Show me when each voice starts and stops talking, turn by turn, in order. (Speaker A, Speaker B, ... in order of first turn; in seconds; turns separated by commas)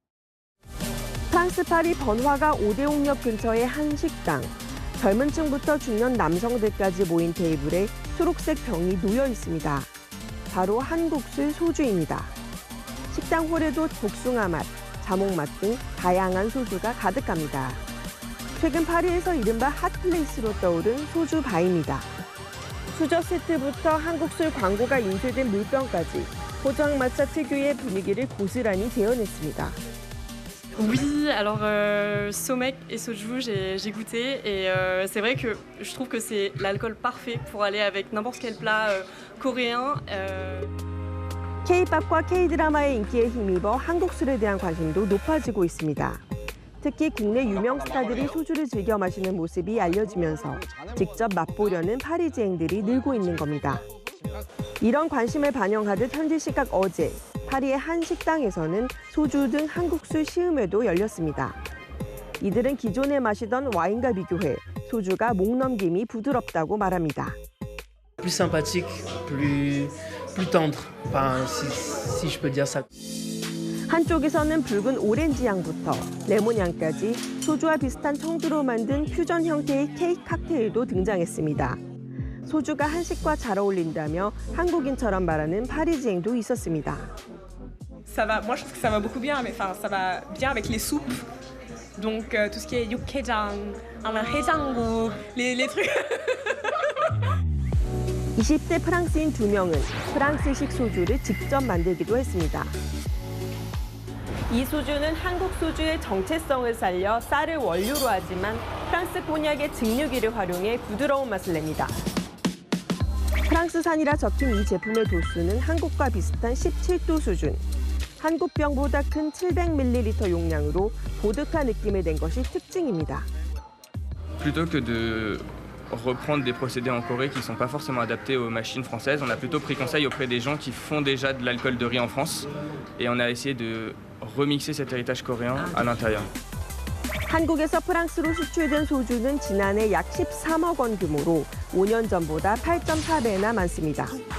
Speaker A: 1.3-9.9, Speaker A: 10.5-12.3, Speaker A: 13.1-17.8, Speaker A: 18.6-22.1, Speaker A: 22.9-29.8, Speaker B: 30.8-40.7, Speaker A: 41.6-46.2, Speaker A: 46.8-53.8, Speaker A: 54.8-61.6, Speaker A: 62.4-67.4, Speaker C: 68.2-72.9, Speaker A: 73.9-81.8, Speaker A: 82.5-87.1, Speaker D: 88.1-91.3, Speaker D: 92.0-96.9, Speaker A: 98.4-102.7, Speaker A: 104.5-111.9, Speaker A: 113.5-117.6, Speaker A: 118.2-123.3, Speaker E: 124.4-136.3, Speaker A: 137.3-144.2